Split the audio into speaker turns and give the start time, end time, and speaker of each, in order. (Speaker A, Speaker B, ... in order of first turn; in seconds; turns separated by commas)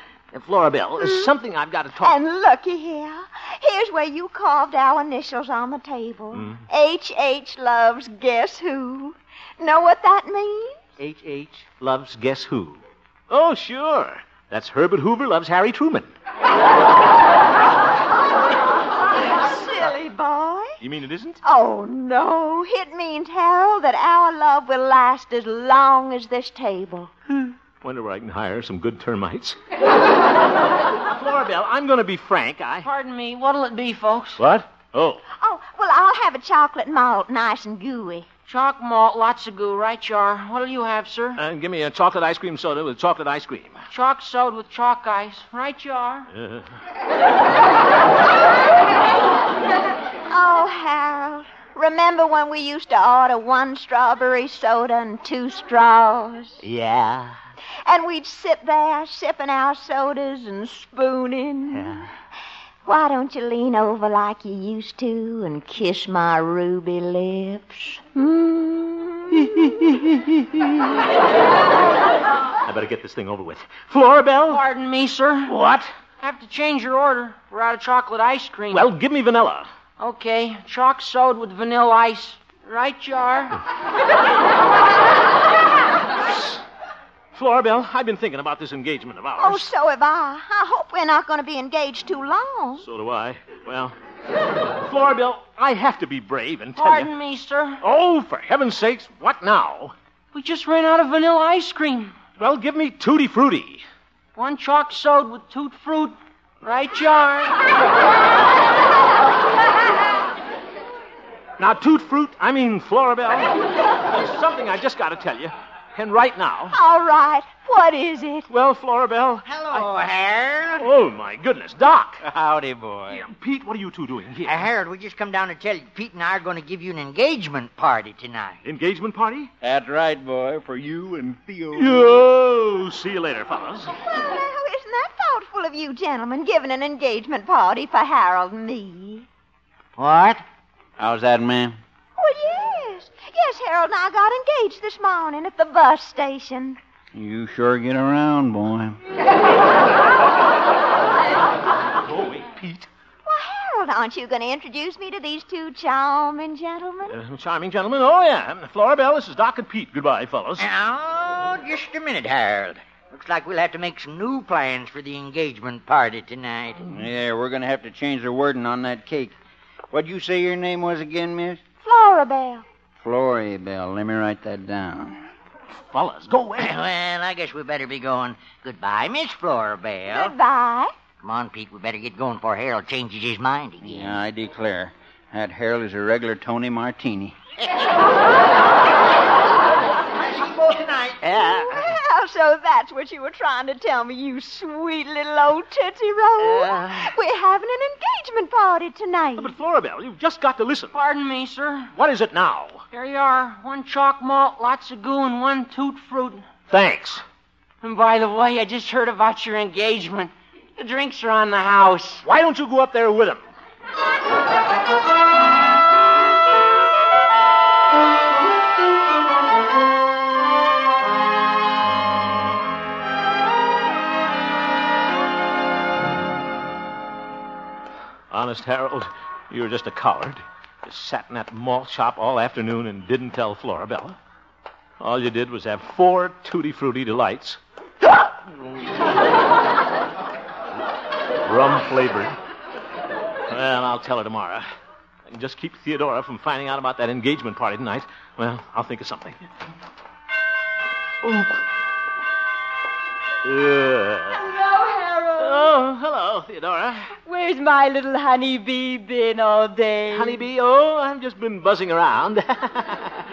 Speaker A: 0.3-2.2, Speaker B: 1.0-1.3, Speaker B: 2.0-10.8, Speaker A: 6.3-6.6, Speaker A: 11.0-16.1, Speaker B: 19.2-20.8, Speaker A: 20.8-21.4, Speaker B: 21.4-27.1, Speaker A: 27.3-29.6, Speaker A: 31.0-32.9, Speaker C: 32.8-34.4, Speaker A: 34.4-35.2, Speaker B: 35.4-38.3, Speaker C: 38.5-41.4, Speaker A: 41.4-43.8, Speaker C: 43.9-46.3, Speaker A: 46.3-46.7, Speaker B: 50.3-56.6, Speaker A: 56.6-57.4, Speaker B: 57.9-62.0, Speaker A: 61.7-62.0, Speaker B: 62.9-69.7, Speaker A: 69.4-70.1, Speaker A: 72.6-74.6, Speaker C: 74.5-75.5, Speaker A: 75.5-75.9, Speaker C: 76.2-78.9, Speaker A: 78.7-79.7, Speaker C: 80.0-83.6, Speaker A: 86.2-86.6, Speaker A: 87.3-89.7, Speaker B: 89.4-92.9, Speaker A: 92.8-94.0, Speaker A: 94.8-97.1, Speaker C: 96.8-97.8, Speaker A: 97.8-100.0, Speaker C: 100.3-102.2, Speaker A: 102.4-103.8, Speaker C: 104.3-107.6, Speaker A: 111.6-116.8, Speaker B: 116.7-118.5, Speaker A: 118.5-119.9, Speaker D: 119.5-120.9, Speaker A: 120.8-122.2, Speaker E: 122.2-123.2, Speaker A: 123.1-124.7, Speaker D: 124.5-128.6, Speaker A: 128.6-129.5, Speaker E: 129.6-132.2, Speaker A: 131.8-133.9, Speaker B: 134.1-139.3, Speaker D: 140.0-140.4, Speaker E: 141.0-141.8, Speaker B: 142.2-146.8, Speaker E: 147.1-149.0, Speaker A: 152.0-152.9, Speaker B: 153.3-157.2, Speaker A: 157.1-160.7, Speaker D: 160.6-166.8, Speaker E: 166.9-169.3, Speaker E: 169.9-171.6, Speaker B: 171.8-172.7, Speaker E: 173.0-175.2, Speaker A: 175.8-176.7, Speaker D: 176.6-180.3, Speaker B: 180.1-180.9, Speaker D: 181.2-184.1, Speaker E: 183.8-187.4, Speaker D: 190.2-191.2, Speaker A: 191.2-191.9, Speaker B: 191.3-199.5, Speaker A: 196.4-197.1, Speaker A: 199.4-201.0, Speaker C: 200.9-201.9, Speaker A: 201.9-202.8, Speaker C: 202.9-206.5, Speaker A: 206.7-207.2, Speaker C: 207.8-212.2, Speaker A: 212.2-213.4, Speaker A: 228.3-234.2, Speaker A: 235.0-238.3, Speaker A: 241.4-242.4, Speaker A: 243.5-244.7, Speaker A: 245.3-249.4, Speaker A: 251.2-251.5, Speaker A: 253.4-254.4, Speaker F: 254.3-255.7, Speaker A: 255.4-257.1, Speaker F: 257.3-260.4, Speaker A: 260.1-263.2